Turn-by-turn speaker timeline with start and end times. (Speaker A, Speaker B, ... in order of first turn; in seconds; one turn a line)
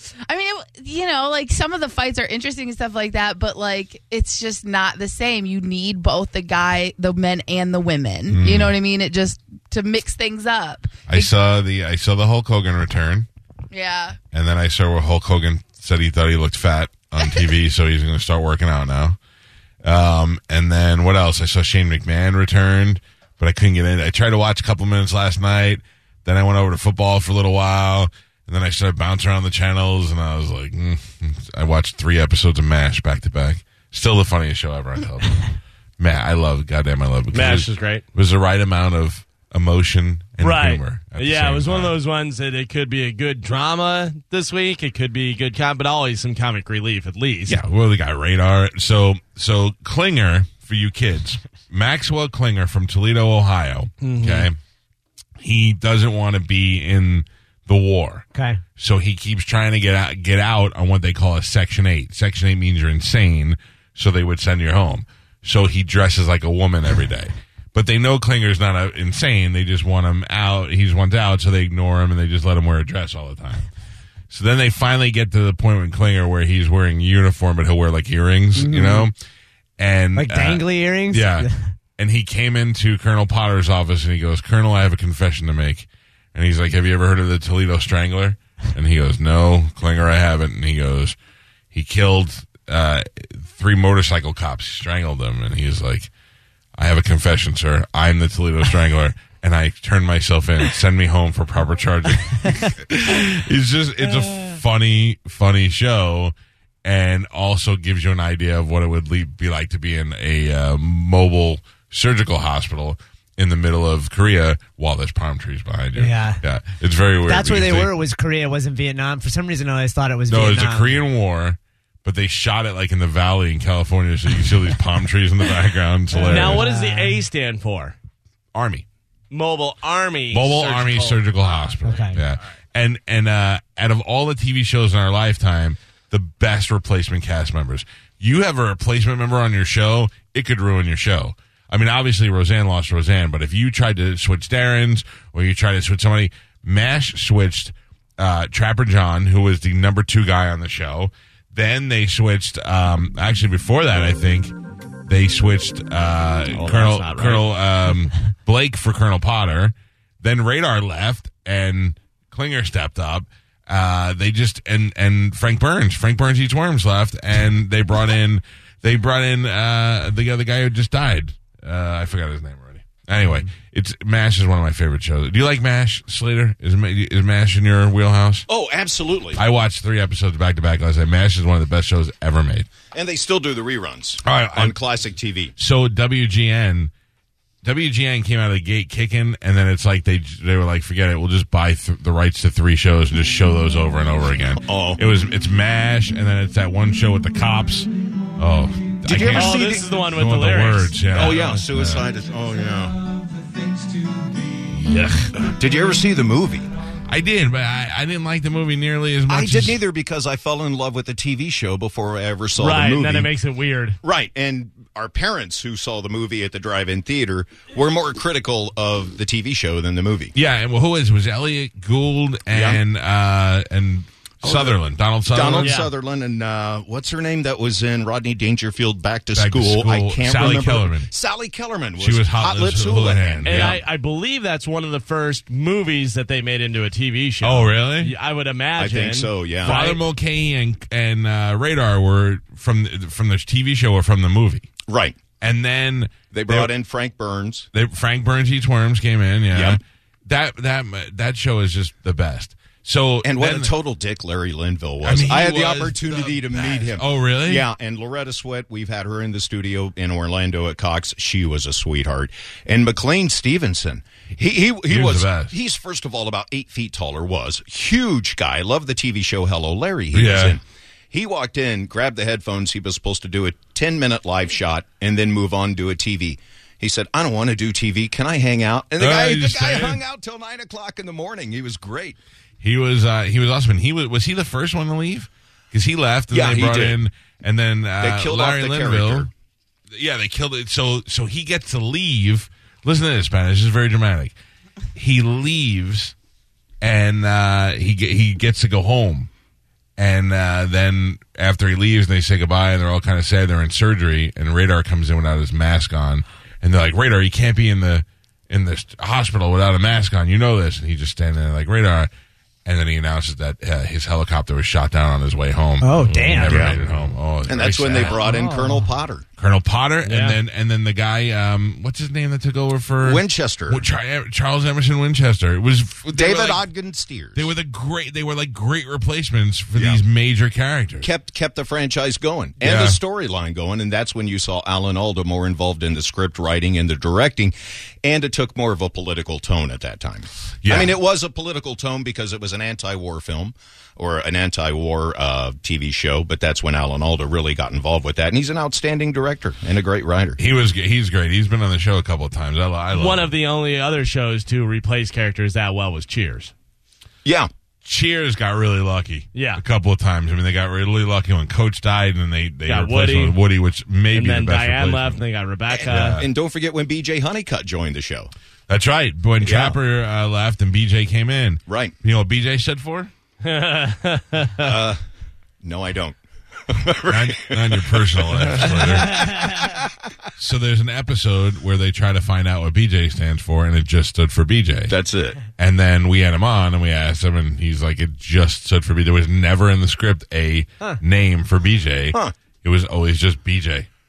Speaker A: 0.3-11.3
Speaker B: 8.3-8.7
Speaker B: 11.1-13.3
Speaker A: 13.7-14.2
Speaker B: 14.3-19.2
Speaker A: 17.2-17.4
Speaker B: 19.8-42.0
Speaker C: 37.3-38.0
Speaker C: 40.4-47.6
Speaker B: 47.5-54.6
Speaker C: 54.0-54.5
Speaker B: 55.4-58.2
Speaker D: 58.4-58.6
Speaker B: 58.8-73.7
Speaker B: 74.3-79.2
Speaker D: 78.5-79.1
Speaker B: 79.8-91.2
Speaker D: 80.2-81.6
Speaker B: 91.7-96.1
Speaker B: 96.8-117.9
Speaker D: 116.0-116.4
Speaker D: 117.2-121.0
Speaker B: 120.3-126.7
Speaker D: 126.1-127.2
Speaker C: 126.2-128.0
Speaker B: 128.6-128.8
Speaker C: 129.3-131.8
Speaker B: 130.3-154.5
Speaker D: 131.8-132.2
Speaker B: 155.1-178.5
Speaker C: 156.5-157.6
Speaker E: 178.5-179.4
Speaker B: 179.4-182.7
Speaker E: 182.9-185.5
Speaker B: 184.2-184.8
Speaker B: 185.6-186.9
Speaker B: 187.6-202.1
Speaker E: 194.6-195.0
Speaker E: 199.0-199.9
Speaker C: 199.3-201.3
Speaker E: 201.1-203.0
Speaker B: 204.7-205.6
Speaker E: 205.6-206.7
Speaker B: 207.1-209.8
Speaker E: 209.3-213.3
Speaker C: 212.6-214.0
Speaker E: 214.0-220.3
Speaker B: 220.3-225.8
Speaker E: 222.5-222.8
Speaker E: 224.4-233.8
Speaker C: 225.6-225.9
Speaker B: 229.3-231.1
Speaker B: 232.0-233.8
Speaker C: 233.4-240.0
Speaker B: 237.4-238.1
Speaker E: 238.8-239.8
Speaker B: 239.6-244.7
Speaker E: 244.9-245.2
Speaker B: 245.4-246.7
Speaker E: 246.3-247.7
Speaker B: 247.7-253.8
Speaker E: 249.5-249.8
Speaker E: 253.2-282.2
Speaker B: 255.0-257.7
Speaker B: 264.9-265.5
Speaker B: 270.1-270.6
Speaker B: 279.0-280.0
Speaker B: 282.6-289.3
Speaker E: 286.3-287.0
Speaker E: 288.0-289.3
Speaker B: 289.9-294.3
Speaker B: 295.0-296.1
Speaker B: 296.8-299.3
Speaker B: 300.0-312.1
Speaker B: 312.7-318.2
Speaker D: 315.8-316.6
Speaker C: 316.0-316.6
Speaker E: 316.5-316.8
Speaker E: 317.5-319.2
Speaker D: 318.2-318.9
Speaker B: 319.4-326.6
Speaker C: 320.0-320.4
Speaker E: 323.0-323.8
Speaker E: 326.1-327.5
Speaker B: 327.4-331.1
Speaker E: 329.8-330.0
Speaker E: 331.0-350.4
Speaker B: 332.6-333.0
Speaker B: 340.6-340.9
Speaker B: 350.4-353.3
Speaker C: 352.9-356.5
Speaker B: 357.9-365.2
Speaker C: 359.3-359.6
Speaker C: 362.6-363.4
Speaker C: 364.1-366.2
Speaker E: 365.8-368.3
Speaker B: 365.9-366.3
Speaker B: 368.7-373.1
Speaker E: 369.4-369.8
Speaker E: 371.7-371.9
Speaker C: 373.4-374.8
Speaker E: 374.6-375.0
Speaker E: 375.6-376.2
Speaker E: 376.7-379.9
Speaker B: 377.1-379.5
Speaker C: 379.0-379.5
Speaker B: 380.4-384.9
Speaker E: 384.9-385.4
Speaker B: 385.6-393.9